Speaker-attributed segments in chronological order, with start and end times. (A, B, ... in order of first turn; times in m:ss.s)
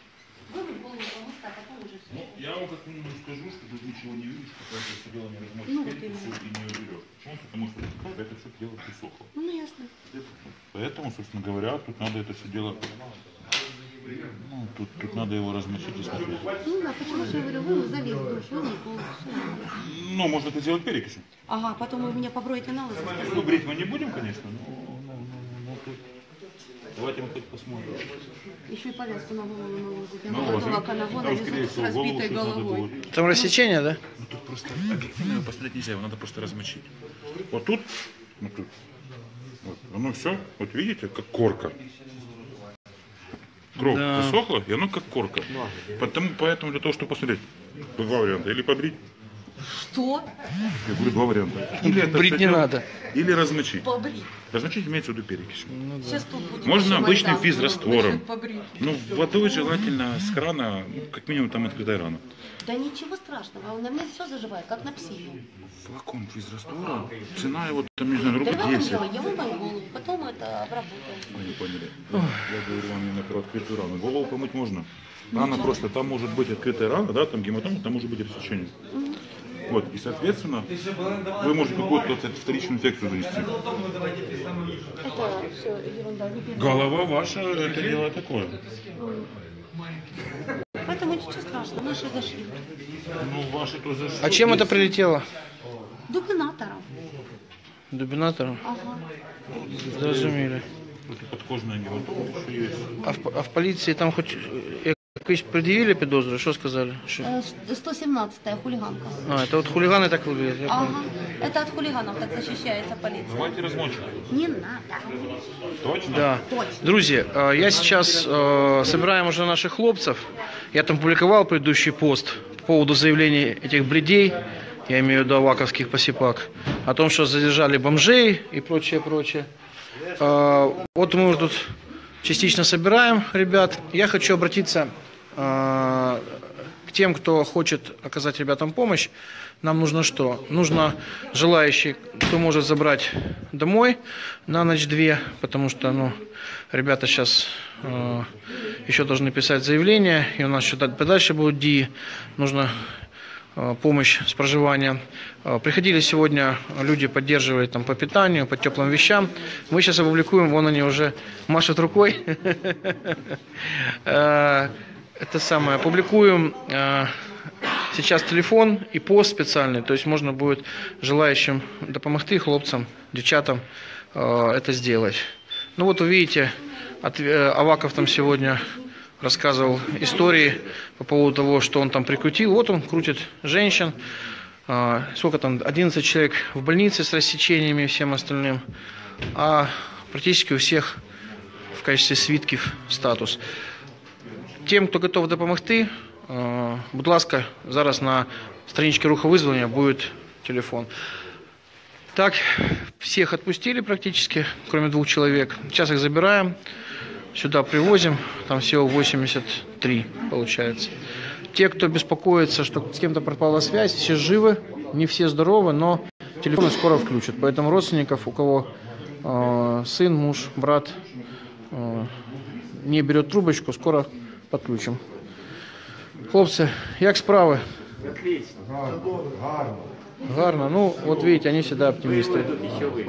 0:00.5-0:02.4 A
0:02.1-0:09.3 B
0:05.6-0:06.4 A
0:09.3-0:09.9 A
0:10.7-0:12.9 B
0:14.4-0:16.4 B
0:16.6-0:19.8 A
0:19.7-0:21.2 B
0:21.5-0:23.3 A
0:23.2-0:26.0 B
0:26.9-0:28.1 B
0:28.7-0:32.9 A
0:30.2-0:33.2 B
0:33.1-0:34.0 C
0:34.2-0:36.9 B
0:37.5-0:37.8 B
0:38.4-0:38.7 B
0:39.6-0:41.8 B
0:43.7-0:47.4 B
0:43.8-0:44.4 C
0:48.0-0:49.0 B
0:49.6-0:50.3 A
0:50.8-0:53.8 B
0:51.8-0:52.8 C
0:53.8-0:54.3 A
0:54.5-0:55.8 B
0:55.7-0:56.2 C
0:56.0-0:59.7 A
0:56.6-0:58.2 B
0:58.8-1:02.2 B
1:02.6-1:05.4 A
1:05.8-1:09.0 B
1:08.2-1:11.3 A
1:11.3-1:18.7 B
1:12.1-1:12.4 C
1:15.3-1:15.8 A
1:18.9-1:19.2 A
1:19.7-1:23.5 B
1:25.0-1:26.8 A
1:26.5-1:28.6 B
1:29.0-1:29.2 A
1:30.8-1:32.6 A
1:33.2-1:34.9 B
1:34.2-1:35.2 C
1:36.1-1:36.8 A
1:37.9-1:38.6 C
1:38.6-1:39.0 A
1:39.5-1:40.5 B
1:39.8-1:40.6 C
1:41.1-1:42.9 B
1:43.0-1:47.3 C
1:47.2-1:49.2 A
1:49.2-1:51.0 C
1:50.6-1:53.5 A
1:53.3-1:54.2 B
1:54.3-1:55.1 A
1:55.8-1:56.4 B
1:56.1-2:09.5 C
1:56.5-1:56.8 A
2:10.2-2:19.1 C
2:19.6-2:26.2 C
2:26.7-2:28.3 C
2:28.8-2:32.9 C
2:33.6-2:47.1 C
2:47.9-2:55.2 C
2:55.8-3:04.0 C
3:04.7-3:08.6 C
3:09.3-3:11.0 C
3:11.7-3:13.4 C
3:14.6-3:20.9 C
3:22.1-3:26.5 C
3:27.3-3:30.9 C
3:31.5-3:38.7 C
3:39.2-3:41.0 C
3:41.7-3:42.1 C
3:42.7-3:45.0 C
3:46.3-3:47.6 C
3:50.2-3:52.6 C